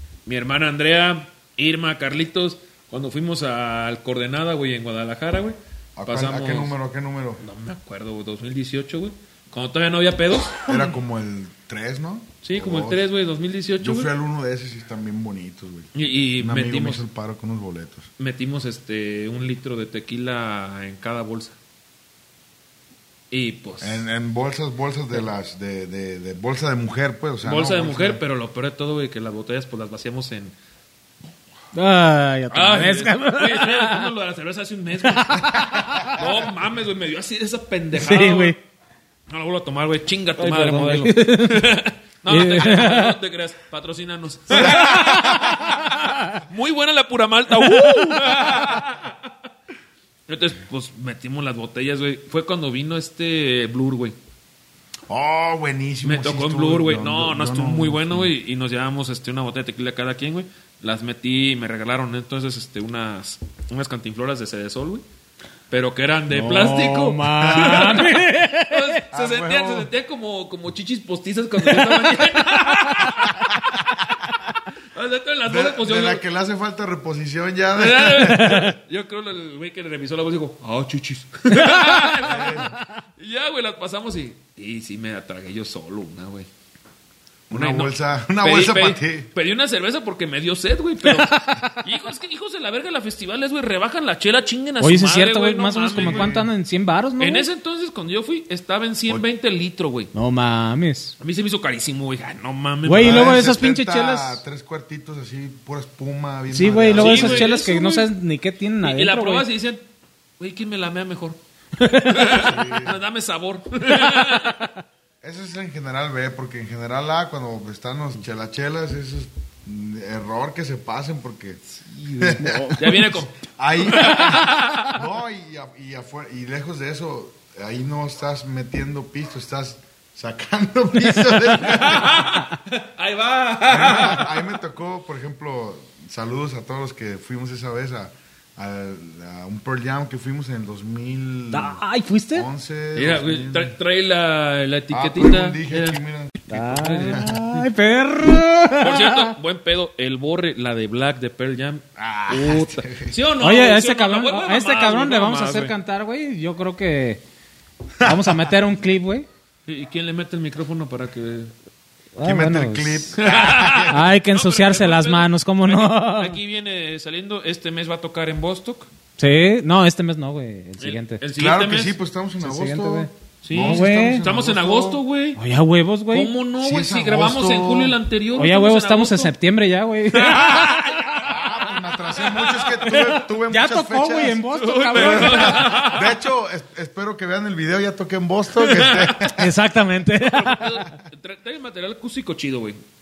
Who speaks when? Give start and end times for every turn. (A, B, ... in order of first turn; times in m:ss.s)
0:00.2-0:06.7 A
0:06.0-0:07.4 B
0:07.4-0:10.9 A
0:10.7-0:13.0 B
0:12.4-0:14.1 A
0:13.8-0:18.1 B
0:15.9-0:17.0 A
0:18.2-0:21.6 A
0:23.3-0:24.0 A
0:23.8-0:28.2 B
0:27.4-0:30.5 A
0:31.7-0:34.1 C
0:32.5-0:38.6 A
0:35.0-0:36.2 C
0:36.0-0:36.3 B
0:37.9-0:38.6 C
0:39.3-0:49.2 A
0:40.4-0:43.2 C
0:44.5-0:46.4 C
0:44.5-0:45.4 B
0:47.6-0:48.4 C
0:50.3-0:54.2 A
0:55.1-0:58.3 B
0:56.0-1:05.0 A
1:05.7-1:14.1 A
1:06.3-1:09.0 C
1:09.1-1:09.9 B
1:11.7-1:12.1 C
1:12.8-1:13.4 C
1:13.5-1:13.8 B
1:14.9-1:16.2 A
1:15.4-1:18.6 B
1:17.7-1:26.5 A
1:18.2-1:18.7 C
1:21.5-1:22.1 C
1:22.2-1:22.8 B
1:27.5-1:29.3 B
1:27.5-1:36.4 A
1:34.8-1:37.4 C
1:35.9-1:36.5 B
1:37.2-1:40.1 A
1:40.1-1:41.1 C
1:41.2-1:43.4 A
1:42.8-1:44.4 C
1:42.9-1:47.5 B
1:46.5-1:49.4 C
1:46.9-1:48.1 A
1:48.8-1:49.8 A
1:50.4-1:51.4 A
1:51.8-1:52.4 C
1:51.9-1:54.6 A
1:52.4-1:53.0 B
1:54.0-1:54.4 C
1:55.2-2:01.6 B
2:01.8-2:05.0 A
2:02.2-2:12.3 B
2:02.2-2:03.0 C
2:11.6-2:14.5 A
2:13.7-2:21.8 B
2:21.5-2:22.5 C
2:22.3-2:23.7 B
2:22.9-2:26.0 A
2:24.9-2:26.5 B
2:26.5-2:29.3 C
2:26.5-2:27.6 A
2:27.0-2:27.4 B
2:28.8-2:35.7 A
2:32.0-2:33.2 B
2:33.4-2:37.2 C
2:38.0-2:38.5 B
2:38.0-2:39.3 C
2:39.7-2:41.5 A
2:42.2-2:43.1 C
2:42.2-2:44.1 B
2:43.2-2:48.9 A
2:43.9-2:46.4 C
2:49.2-2:51.2 C
2:50.8-2:52.0 A
2:51.3-2:55.0 B
2:52.4-2:54.2 C
2:53.4-2:55.4 A
2:55.4-2:56.3 C
2:56.1-2:59.3 A
2:56.6-2:58.0 B
2:58.4-3:00.8 C
3:00.1-3:03.2 A
3:01.2-3:09.5 B
3:03.5-3:05.8 C
3:04.5-3:06.2 A
3:08.6-3:09.3 A
3:09.2-3:10.9 C
3:10.2-3:12.8 A